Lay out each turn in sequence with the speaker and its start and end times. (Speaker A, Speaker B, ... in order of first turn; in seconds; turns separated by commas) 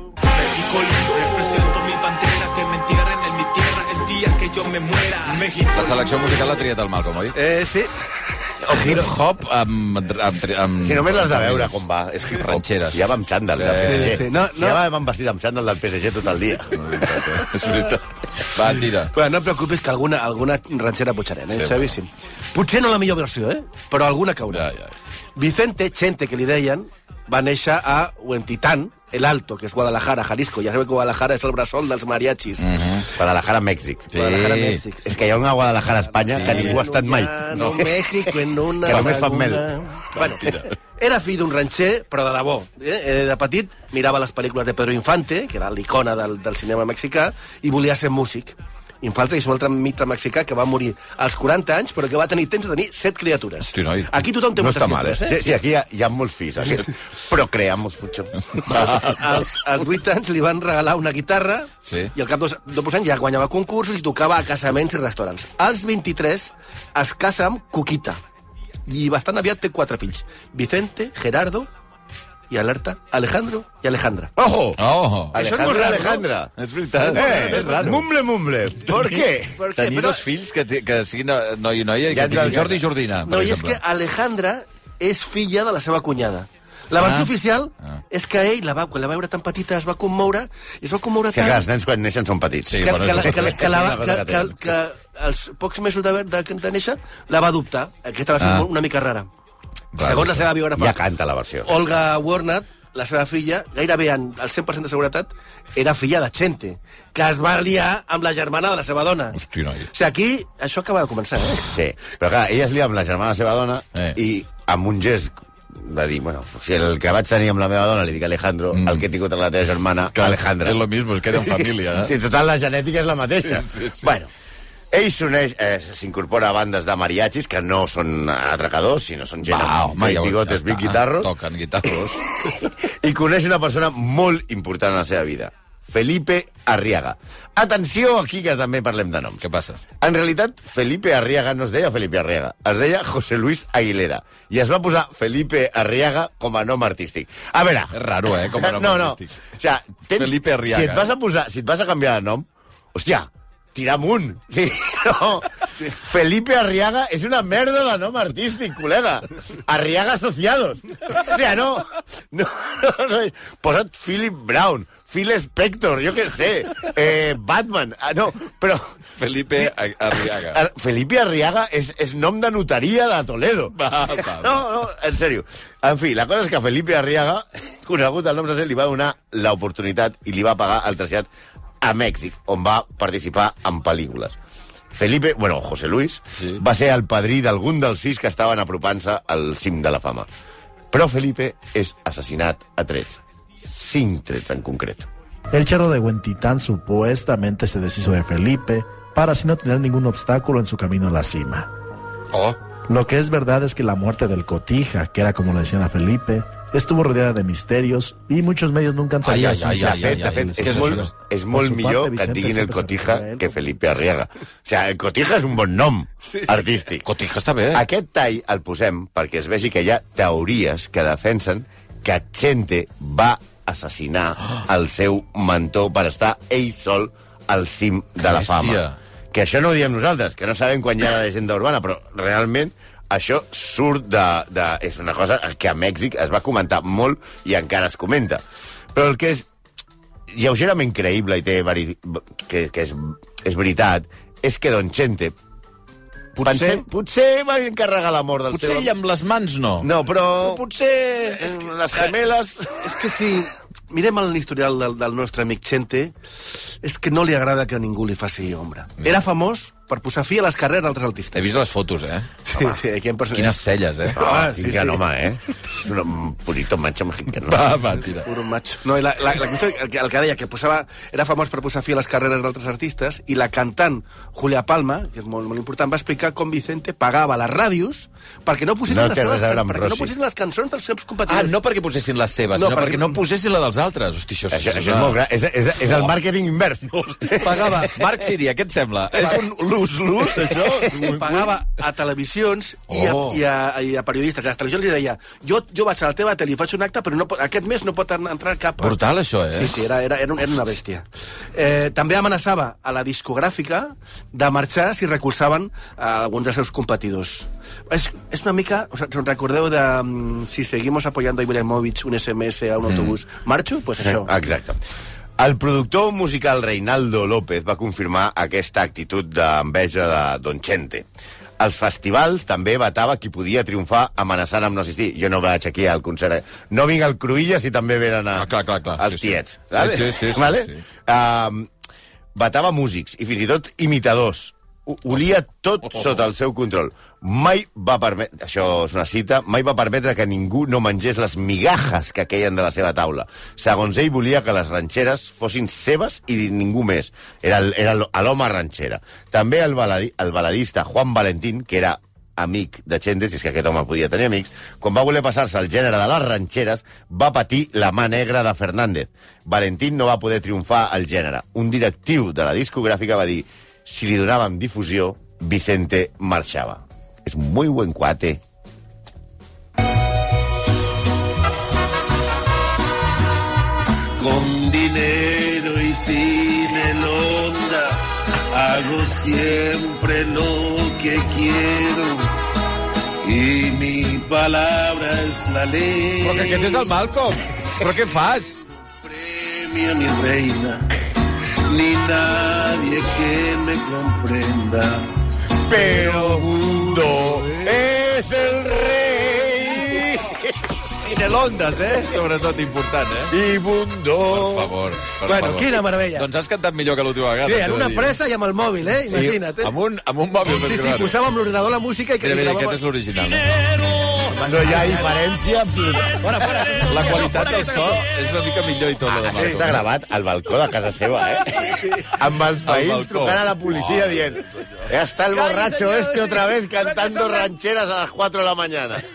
Speaker A: 0.3-6.2, Speaker B: 5.7-7.4, Speaker C: 7.3-7.9, Speaker D: 8.6-9.1, Speaker B: 8.7-11.8, Speaker D: 10.8-16.8, Speaker B: 12.3-14.3, Speaker C: 13.8-14.8, Speaker B: 16.7-19.1, Speaker C: 19.0-24.7, Speaker B: 21.5-21.9, Speaker B: 24.5-24.9, Speaker C: 25.4-32.9, Speaker B: 32.6-33.1, Speaker D: 33.1-34.1, Speaker B: 34.1-34.8, Speaker C: 34.1-35.2, Speaker D: 35.0-37.8, Speaker C: 36.1-55.5, Speaker B: 36.3-36.8, Speaker B: 37.5-37.9, Speaker D: 38.8-39.7, Speaker B: 40.1-40.6, Speaker B: 53.7-54.2, Speaker D: 54.6-58.6, Speaker B: 58.6-59.2, Speaker C: 58.8-68.2, Speaker B: 61.9-62.1, Speaker C: 68.9-71.7, Speaker C: 72.5-74.3, Speaker D: 74.4-74.8, Speaker B: 74.8-75.4, Speaker D: 75.3-76.5, Speaker C: 75.3-76.3, Speaker B: 76.6-78.0, Speaker C: 77.0-78.0, Speaker D: 77.0-79.6, Speaker B: 78.9-79.2, Speaker C: 79.5-80.2, Speaker B: 79.7-83.8, Speaker D: 82.1-82.8, Speaker C: 83.2-91.7, Speaker B: 87.0-87.3, Speaker D: 91.3-94.6, Speaker B: 92.7-93.6, Speaker C: 92.8-99.3, Speaker B: 98.4-98.7, Speaker B: 99.9-100.5, Speaker C: 100.0-101.0, Speaker D: 100.8-101.8, Speaker C: 101.6-109.4, Speaker B: 109.3-109.9, Speaker C: 109.9-111.8, Speaker D: 111.7-120.8, Speaker B: 118.7-119.0, Speaker B: 120.1-122.1, Speaker D: 121.3-124.3, Speaker B: 123.4-124.1, Speaker D: 124.9-131.3, Speaker B: 129.4-132.4, Speaker D: 131.8-139.4, Speaker B: 139.4-139.8, Speaker D: 140.0-168.9, Speaker B: 147.9-149.4, Speaker B: 150.2-151.1, Speaker B: 169.2-170.6, Speaker D: 169.6-181.3, Speaker B: 173.8-174.6, Speaker D: 181.8-184.4, Speaker D: 184.9-190.3, Speaker D: 190.9-195.1, Speaker E: 195.5-201.7, Speaker B: 202.3-202.6, Speaker E: 202.9-213.6, Speaker B: 209.2-211.1, Speaker D: 209.3-217.1, Speaker C: 216.2-216.6, Speaker B: 217.0-217.8, Speaker D: 217.7-238.4, Speaker B: 228.2-229.0, Speaker D: 238.9-239.5, Speaker D: 240.3-245.3, Speaker B: 246.3-246.8, Speaker D: 246.4-248.9, Speaker B: 248.5-251.5, Speaker D: 249.8-250.7, Speaker D: 251.3-252.8, Speaker C: 252.8-256.1, Speaker C: 256.8-261.4, Speaker B: 261.3-262.4, Speaker C: 262.5-263.6, Speaker B: 263.3-264.2, Speaker C: 264.1-265.0, Speaker D: 264.1-267.8, Speaker B: 267.4-268.3, Speaker C: 268.1-281.6, Speaker D: 278.9-280.1, Speaker B: 281.3-285.2, Speaker C: 282.5-283.2, Speaker D: 284.5-287.8, Speaker B: 285.8-286.1, Speaker B: 287.0-291.6, Speaker C: 287.4-287.9, Speaker C: 290.8-299.0, Speaker B: 292.9-293.4, Speaker B: 298.8-299.8, Speaker C: 299.5-314.3, Speaker D: 314.0-314.8, Speaker D: 315.4-321.1, Speaker D: 321.6-331.7, Speaker B: 328.3-330.8, Speaker D: 332.3-368.4, Speaker F: 374.2-382.3, Speaker F: 383.2-386.9, Speaker B: 386.2-388.6, Speaker F: 389.0-390.9, Speaker F: 391.7-395.1, Speaker D: 395.6-400.7, Speaker F: 395.7-397.7, Speaker B: 401.0-403.3, Speaker C: 401.1-402.0, Speaker D: 403.3-404.7, Speaker B: 404.3-408.1, Speaker C: 405.2-406.3, Speaker C: 407.4-409.7, Speaker B: 409.1-411.1, Speaker C: 410.4-412.8, Speaker B: 412.2-413.8, Speaker C: 414.2-415.1, Speaker D: 414.4-416.3, Speaker C: 416.2-418.0, Speaker B: 416.9-419.8, Speaker D: 419.1-429.0, Speaker B: 422.6-424.9, Speaker C: 425.3-427.5